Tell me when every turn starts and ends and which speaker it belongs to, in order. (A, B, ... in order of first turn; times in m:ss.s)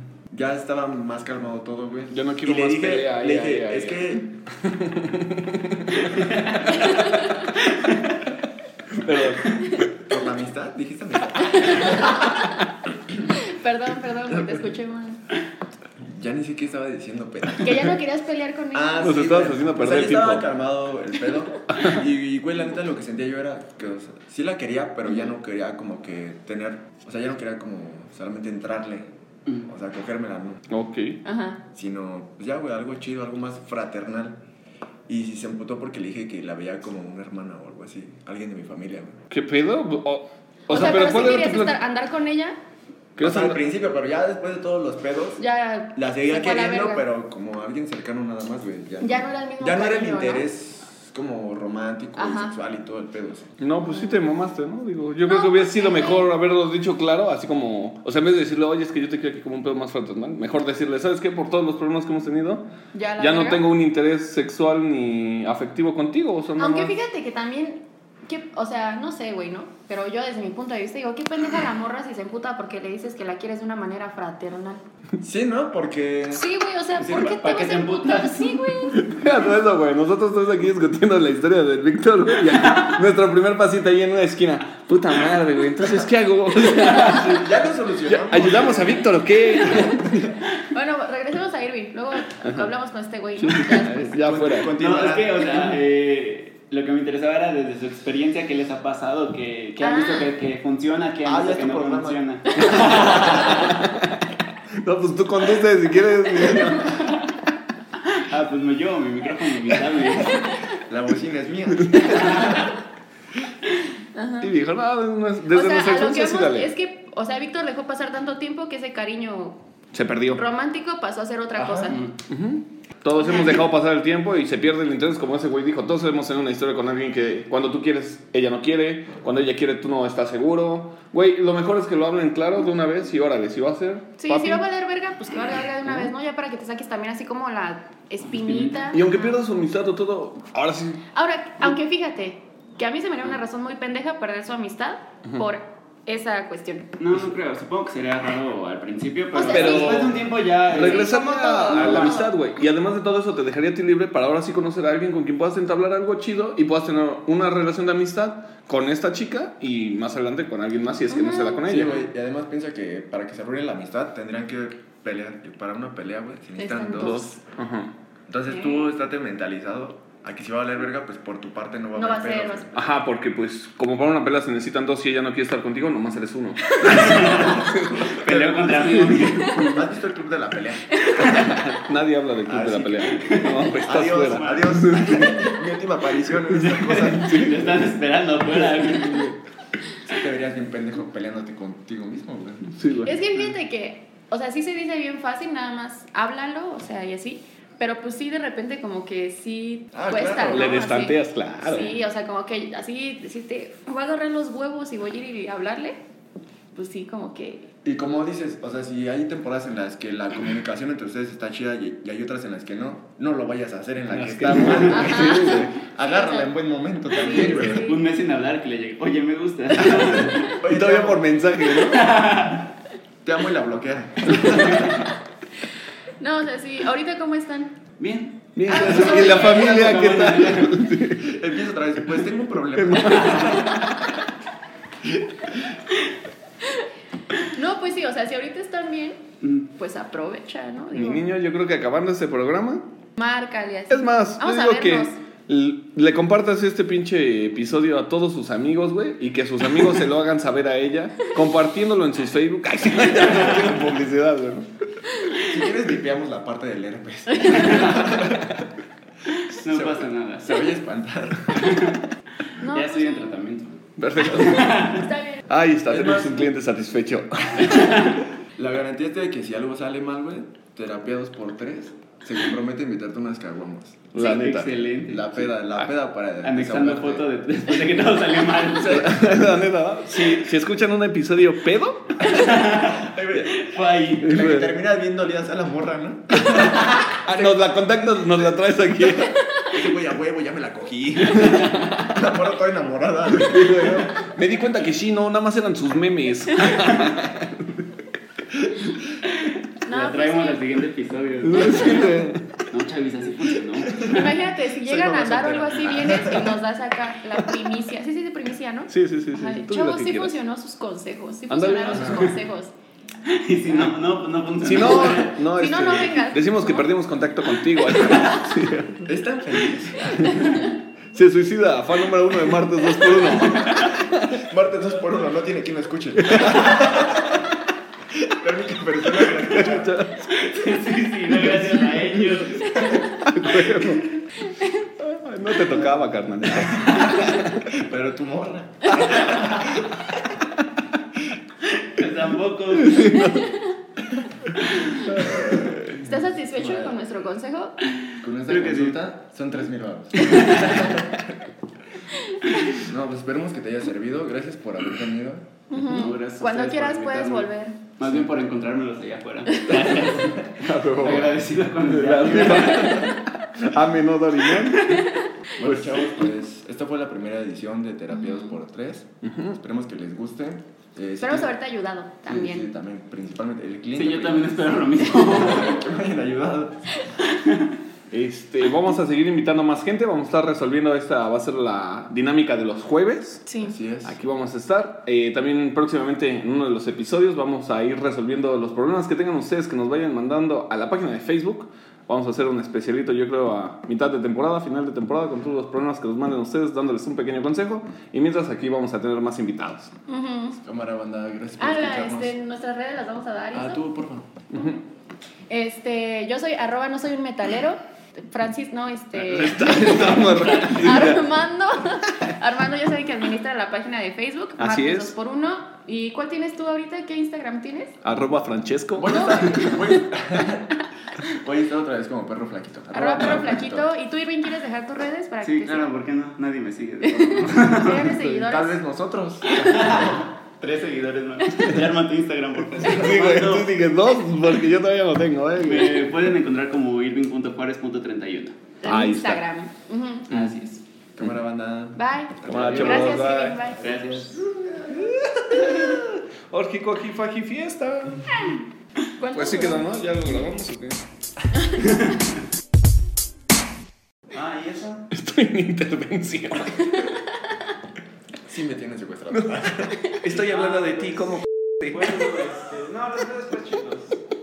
0:00.3-0:04.3 A
0:02.1-0:06.2 B
0:06.2-0:06.6 C
0:06.8-0:07.3 D
0:07.6-0:08.2 C
0:08.9-0:09.9 B
0:10.0-0:12.2 A
0:11.6-0:12.3 D
0:13.3-0:15.2 D
0:16.0-0:17.9 A
0:17.6-0:19.0 D
0:18.7-0:29.1 A
0:19.0-0:20.5 B
0:21.7-0:22.0 B
0:29.6-0:30.6 A
0:30.7-0:31.2 B
0:31.2-0:31.6 D
0:31.7-0:34.4 A
0:35.1-0:39.2 A
0:39.3-0:41.8 B
0:40.7-0:42.6 D
0:43.2-0:43.6 B
0:43.2-0:45.4 A
0:45.4-0:47.0 D
0:45.9-0:53.5 A
0:49.0-0:50.5 D
0:52.2-0:52.5 D
0:53.6-1:02.6 B
0:53.8-0:54.2 D
0:55.2-0:56.3 D
1:02.9-1:03.6 D
1:03.2-1:06.9 B
1:06.6-1:14.8 D
1:15.2-1:16.4 A
1:16.3-1:19.0 D
1:17.0-1:18.7 C
1:18.9-1:27.5 B
1:27.1-1:29.3 A
1:28.0-1:30.4 B
1:29.6-1:30.0 D
1:30.6-1:34.2 D
1:32.4-1:32.7 B
1:33.4-1:34.7 B
1:34.2-1:35.6 A
1:34.7-1:43.7 C
1:39.8-1:40.3 D
1:41.2-1:42.2 A
1:42.6-1:47.2 B
1:42.9-1:43.3 A
1:48.1-1:50.5 C
1:50.7-1:52.7 A
1:51.8-1:52.4 B
1:54.1-1:54.5 D
1:54.4-1:56.7 B
1:55.5-1:59.6 D
1:59.9-2:00.4 B
2:00.3-2:02.0 D
2:01.6-2:02.0 A
2:02.3-2:14.6 B
2:14.2-2:19.4 D
2:15.8-2:16.1 B
2:18.3-2:18.9 C
2:18.9-2:21.0 B
2:21.1-2:26.9 D
2:27.0-2:32.2 C
2:29.3-2:30.2 D
2:29.4-2:42.0 B
2:30.7-2:32.3 D
2:41.1-2:41.7 D
2:41.6-2:47.3 A
2:46.6-2:47.4 D
2:46.9-2:47.9 B
2:48.3-2:52.8 A
2:48.5-2:48.8 D
2:51.9-2:52.7 D
2:52.7-2:58.4 B
2:56.8-2:59.7 C
2:57.1-3:01.5 A
2:58.9-2:59.6 B
3:00.9-3:01.6 D
3:01.2-3:05.5 B
3:02.4-3:07.7 A
3:03.1-3:04.8 C
3:06.5-3:09.3 C
3:07.1-3:07.7 B
3:08.6-3:09.4 B
3:10.0-3:12.7 A
3:12.7-3:13.1 B
3:13.0-3:26.0 D
3:19.9-3:20.9 A
3:20.5-3:22.0 B
3:26.7-3:27.7 D
3:27.8-3:37.8 A
3:34.1-3:35.8 B
3:34.5-3:35.1 C
3:34.9-3:36.5 D
3:37.1-3:38.0 D
3:37.4-3:40.5 C
3:39.9-3:42.2 B
3:39.9-3:41.4 A
3:41.7-3:42.7 C
3:43.2-3:45.1 A
3:44.5-3:44.9 C
3:46.2-3:47.7 D
3:48.0-3:50.8 C
3:48.6-3:51.4 B
3:48.7-3:49.8 D
3:51.2-3:53.8 A
3:52.7-3:54.1 B
3:55.1-3:55.6 B
3:57.4-4:01.3 D
4:00.9-4:02.8 B
4:03.2-4:05.2 D
4:03.9-4:15.1 B
4:15.4-4:18.6 A
4:17.5-4:18.1 C
4:19.3-4:20.7 C
4:19.7-4:22.0 A
4:21.5-4:22.0 C
4:22.6-4:23.4 D
4:22.6-4:25.1 C
4:24.0-4:28.2 B
4:24.9-4:25.4 D
4:25.9-4:26.5 A
4:27.7-4:28.1 C
4:28.6-4:34.2 A
4:34.1-4:34.9 B
4:34.1-4:35.6 C
4:35.0-4:37.3 A
4:36.4-4:39.1 C
4:38.8-4:42.3 B
4:42.2-4:44.5 C
4:42.4-4:43.6 A
4:44.2-4:47.8 A
4:44.2-4:44.7 B
4:46.5-4:49.5 B
4:49.6-4:54.1 A
4:51.4-4:51.6 B
4:51.5-4:51.9 C
4:53.3-4:57.8 B
4:58.5-4:59.0 B
4:59.4-5:04.3 C
4:59.8-5:00.6 D
5:01.4-5:02.7 B
5:04.0-5:12.7 D
5:04.9-5:06.5 A
5:08.9-5:10.4 B
5:11.5-5:12.3 B
5:12.0-5:12.3 C
5:13.2-5:15.8 C
5:14.6-5:19.1 B
5:14.8-5:16.9 D
5:18.0-5:18.2 C
5:19.1-5:20.5 A
5:20.2-5:24.4 B
5:24.4-5:27.3 A
5:26.2-5:27.2 B
5:28.2-5:30.0 A
5:29.1-5:30.3 B
5:30.3-5:34.0 C
5:31.4-5:34.1 B
5:34.4-5:34.9 D
5:35.0-5:37.6 B
5:36.4-5:40.2 A
5:41.8-5:43.2 C
5:42.7-5:43.6 B
5:43.1-5:43.7 D
5:44.7-5:45.0 C
5:45.0-5:45.8 B
5:45.1-5:47.0 A
5:45.8-5:47.8 D
5:48.2-5:51.3 A
5:48.5-5:49.0 C
5:50.2-5:50.9 C
5:52.7-5:55.5 A
5:55.7-5:57.8 D
5:55.8-6:03.2 C
6:00.4-6:06.0 B
6:05.6-6:11.5 A
6:08.2-6:08.5 D
6:09.2-6:09.6 B
6:11.2-6:12.7 D
6:12.2-6:16.8 A
6:13.9-6:15.8 C
6:17.2-6:17.7 C
6:18.1-6:23.4 B
6:23.5-6:23.8 D
6:23.6-6:24.2 A
6:24.0-6:39.9 B
6:40.1-6:40.6 D
6:40.6-6:42.3 A
6:41.6-6:43.8 D
6:43.5-6:44.4 A
6:44.5-6:44.8 B
6:45.5-6:58.0 D
6:49.2-6:51.3 B
6:54.6-6:55.1 B
6:58.0-6:59.4 B
6:59.0-7:03.9 A
6:59.0-7:00.0 D
7:02.9-7:05.9 D
7:05.4-7:08.2 C
7:07.1-7:08.8 D
7:07.1-7:10.2 A
7:09.5-7:13.7 C
7:12.7-7:16.1 B
7:15.6-7:18.6 C
7:18.8-7:20.3 D
7:18.8-7:19.4 B
7:20.3-7:20.8 C
7:21.2-7:23.3 A
7:21.9-7:23.8 D
7:22.4-7:23.7 B
7:22.5-7:24.4 C
7:24.4-7:28.6 B
7:24.9-7:26.0 A
7:29.2-7:30.0 D
7:29.3-7:31.0 B
7:31.8-7:32.2 C
7:34.3-7:35.1 C
7:35.1-7:37.1 B
7:38.4-7:40.0 A
7:39.3-7:42.2 B
7:40.3-7:41.4 C
7:41.9-7:44.2 C